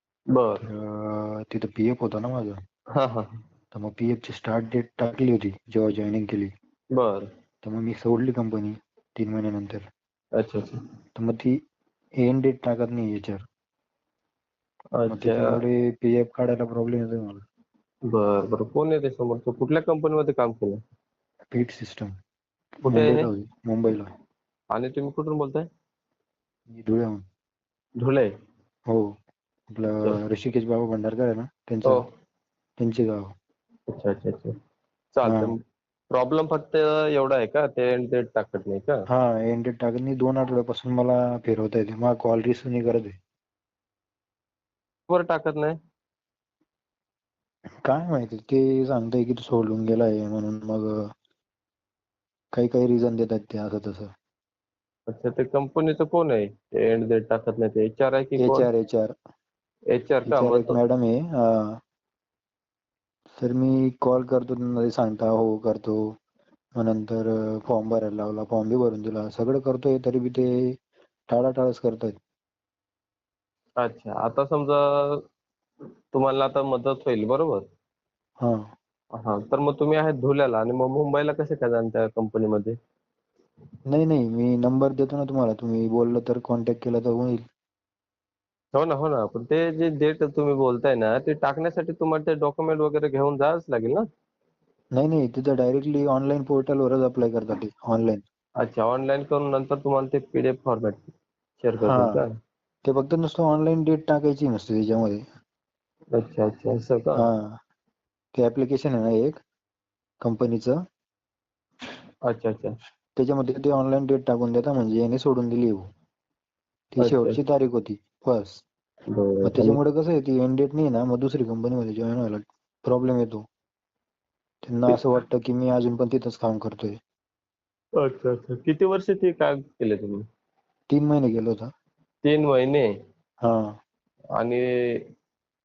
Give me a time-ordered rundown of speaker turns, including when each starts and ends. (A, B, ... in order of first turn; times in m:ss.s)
0:00.3-0:00.7 A
0:00.7-0:02.6 B
0:03.0-0:03.3 A
0:03.7-0:06.5 B
0:06.9-0:07.3 A
0:07.6-0:09.8 B
0:10.4-0:10.8 A
0:11.2-0:11.6 B
0:12.2-0:13.5 B
0:15.0-0:15.6 A
0:15.1-0:17.4 B
0:18.1-0:20.8 A
0:21.5-0:22.1 B
0:22.8-0:24.1 B
0:22.9-0:23.3 A
0:24.7-0:25.6 A
0:26.7-0:27.2 B
0:28.0-0:28.3 A
0:29.7-0:32.0 B
0:32.8-0:33.3 B
0:33.9-0:34.5 A
0:35.1-0:35.5 A
0:35.2-0:35.5 B
0:36.1-0:39.0 A
0:39.1-0:43.2 B
0:45.1-0:45.7 A
0:47.8-0:50.9 B
0:52.5-0:54.1 B
0:55.1-0:58.7 A
0:58.4-0:59.1 B
0:59.9-1:00.8 A
1:00.2-1:01.7 B
1:03.4-1:06.0 B
1:06.8-1:10.5 B
1:11.3-1:12.2 B
1:13.8-1:15.2 A
1:16.1-1:17.6 A
1:19.2-1:22.7 A
1:23.9-1:27.4 B
1:28.7-1:34.0 A
1:35.0-1:38.2 B
1:38.6-1:42.3 A
1:41.8-1:42.2 B
1:42.8-1:45.2 B
1:46.1-1:47.2 A
1:47.2-1:47.6 B
1:48.4-1:49.4 B
1:50.2-1:50.8 B
1:52.3-1:52.7 A
1:53.2-1:55.9 B
1:56.9-1:58.6 B
1:57.0-1:57.4 A
1:59.1-1:59.8 A
1:59.4-2:03.4 B
2:04.6-2:07.0 B
2:08.0-2:10.2 A
2:10.9-2:11.7 B
2:12.2-2:12.9 A
2:13.4-2:13.7 B